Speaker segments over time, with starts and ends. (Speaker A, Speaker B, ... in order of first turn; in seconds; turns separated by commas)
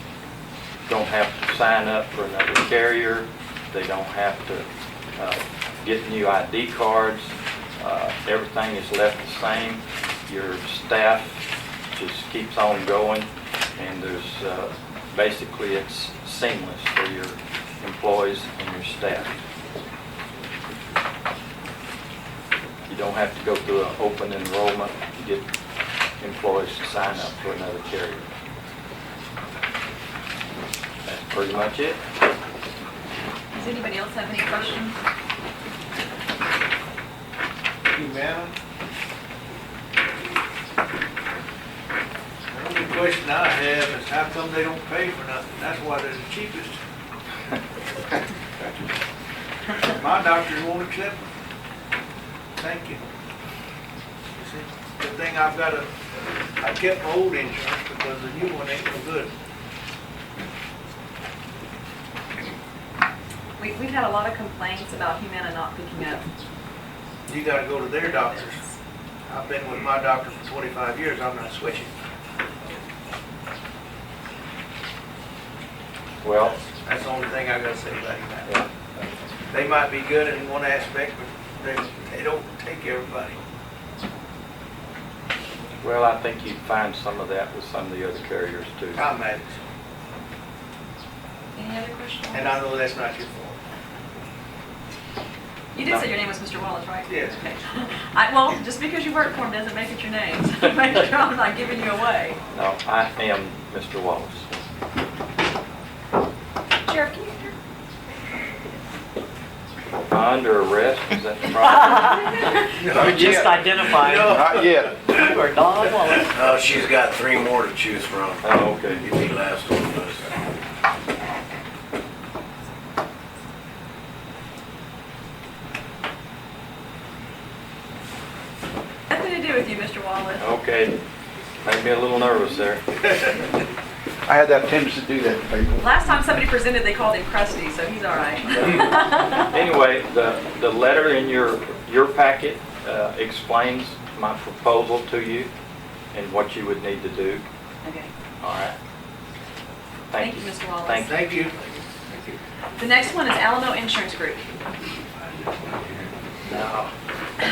Speaker A: 0.9-4.7, Speaker A: 5.2-11.4, Speaker A: 11.9-19.4, Speaker A: 22.9-25.5, Speaker A: 26.2-28.3, Speaker A: 31.1-32.0, Speaker B: 33.5-35.0, Speaker C: 37.9-38.5, Speaker C: 42.5-46.8, Speaker C: 49.9-51.2, Speaker C: 52.6-53.0, Speaker C: 54.4-55.9, Speaker C: 56.6-59.3, Speaker B: 63.6-66.3, Speaker C: 67.3-68.6, Speaker B: 68.1-68.7, Speaker C: 69.3-71.9, Speaker A: 76.2-76.6, Speaker C: 76.8-78.5, Speaker C: 79.5-83.4, Speaker A: 85.8-89.0, Speaker C: 89.0-89.5, Speaker B: 91.6-92.6, Speaker C: 92.3-93.6, Speaker B: 95.7-102.4, Speaker A: 95.8-96.1, Speaker C: 97.1-97.5, Speaker A: 102.5-104.5, Speaker B: 106.9-107.5, Speaker A: 110.1-112.3, Speaker D: 111.7-114.4, Speaker C: 112.8-114.6, Speaker E: 112.9-113.5, Speaker E: 114.3-114.9, Speaker D: 115.0-116.5, Speaker C: 115.3-116.3, Speaker F: 116.3-120.2, Speaker A: 118.4-119.0, Speaker B: 129.1-130.5, Speaker A: 130.4-131.0, Speaker A: 131.6-132.8, Speaker E: 134.3-135.9, Speaker B: 135.8-139.5, Speaker A: 139.3-145.5, Speaker A: 146.1-147.5, Speaker B: 147.8-148.1, Speaker A: 148.4-148.8, Speaker A: 150.1-151.2, Speaker B: 150.2-151.2, Speaker C: 151.1-151.6, Speaker B: 152.1-154.5, Speaker C: 156.5-156.9